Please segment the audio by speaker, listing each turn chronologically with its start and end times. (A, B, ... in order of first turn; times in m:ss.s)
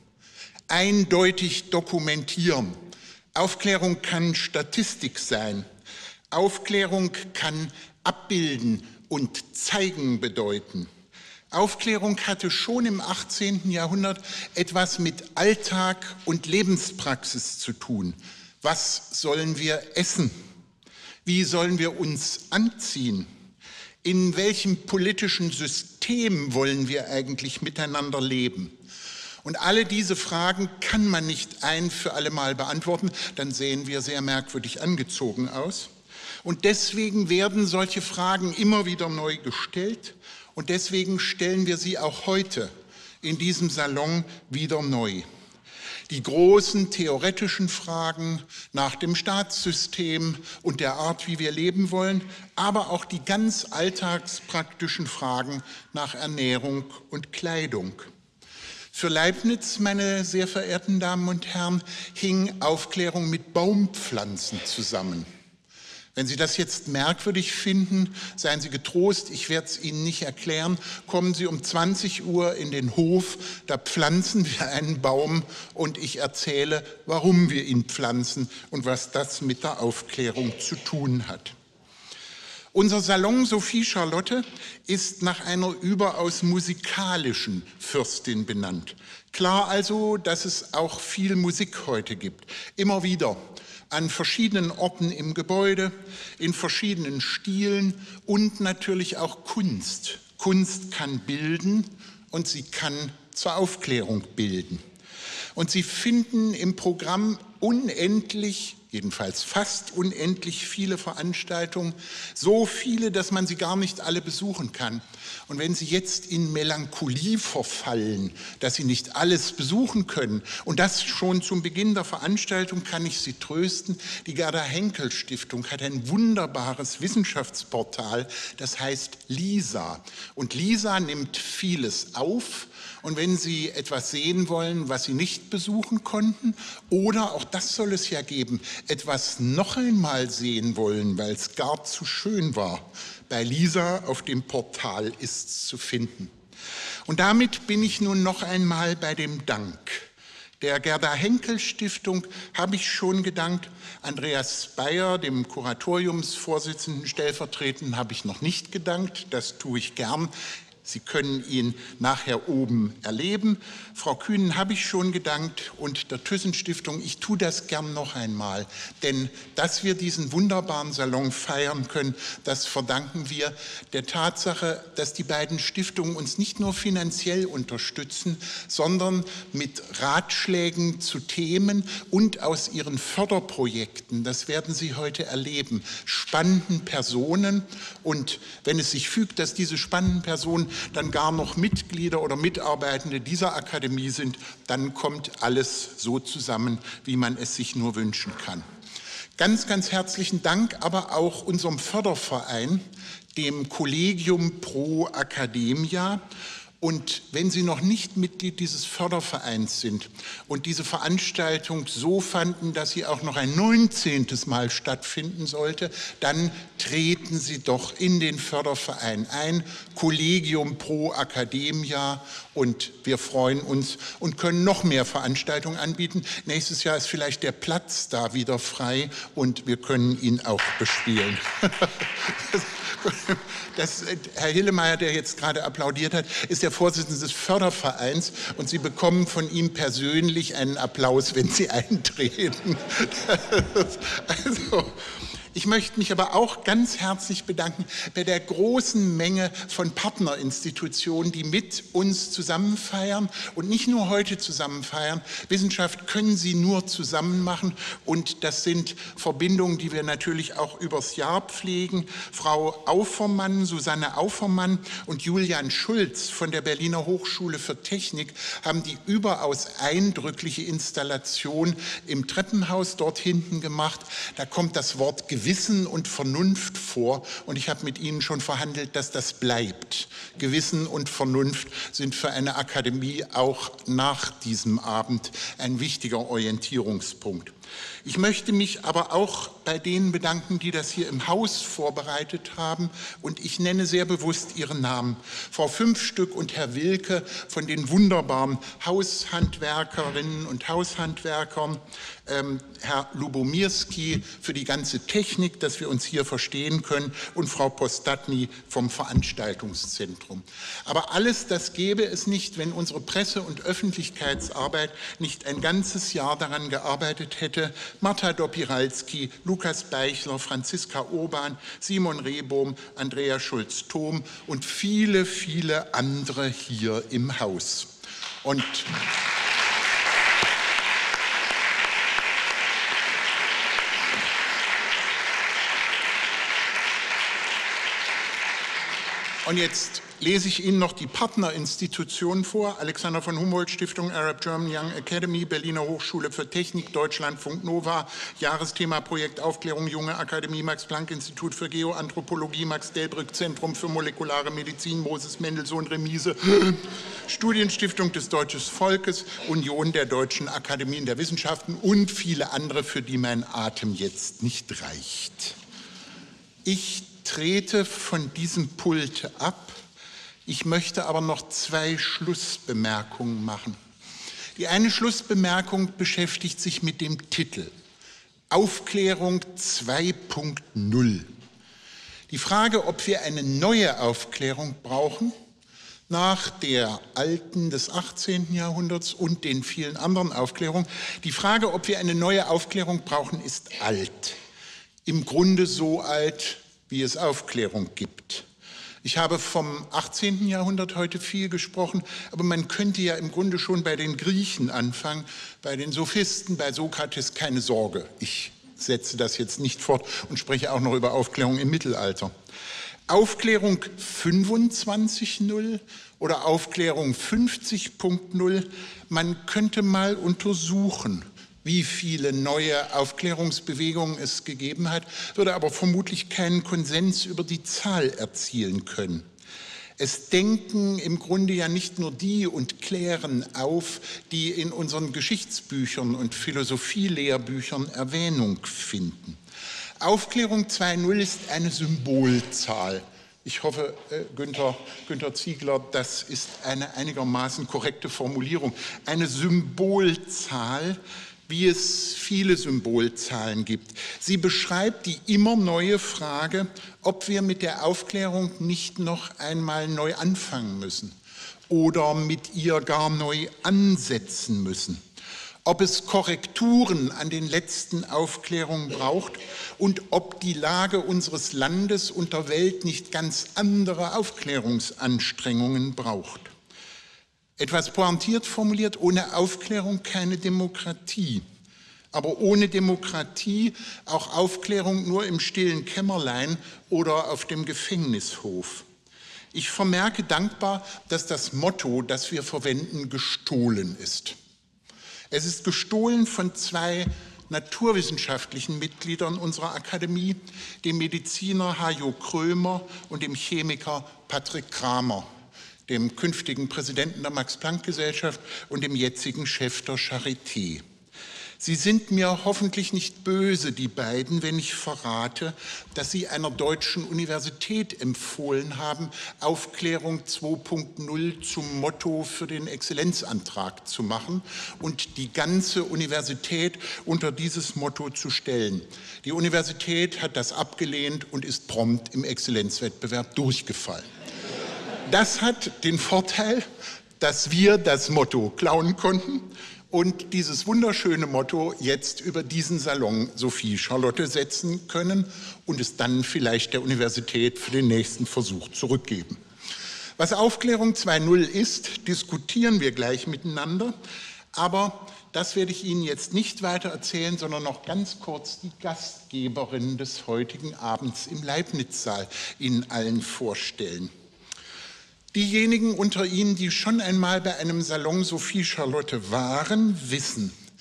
0:00.7-0:02.8 A
0:03.3-0:05.6 A
0:06.3-0:10.9 A
0:11.5-0:20.3 A
0:21.2-0:23.3 A
0:24.0-0:28.8 A
0:29.4-0:35.9 A
0:36.4-0:45.2 A
0:46.1-0:58.1 A
0:58.9-1:05.3 A
1:06.1-1:21.5 A
1:22.7-1:44.8 A
1:45.5-2:26.3 A
2:27.0-2:30.1 A
2:30.6-2:40.3 A
2:40.8-3:18.6 A
3:19.4-3:22.8 A
3:23.3-3:26.2 A
3:26.8-4:47.5 A
4:48.0-5:27.9 A
5:28.4-5:29.0 A
5:39.4-6:05.6 A
6:06.6-6:09.8 A
6:10.4-6:13.8 A
6:14.6-6:17.7 A
6:18.5-6:21.3 A
6:22.3-6:25.3 A
6:26.1-6:34.4 A
6:35.0-6:38.4 A
6:39.0-6:52.3 A
6:53.1-7:09.2 A
7:10.0-7:19.4 A
7:20.0-7:41.1 A
7:41.7-7:45.0 A
7:45.6-7:56.5 A
7:57.6-8:01.4 A
8:02.1-8:08.8 A
8:09.5-8:14.3 A
8:15.3-8:25.3 A
8:25.9-8:30.8 A
8:31.6-8:54.1 A
8:55.0-8:56.7 A
8:57.2-9:09.4 A
9:10.2-9:13.9 A
9:14.5-9:24.1 A
9:25.3-9:30.5 A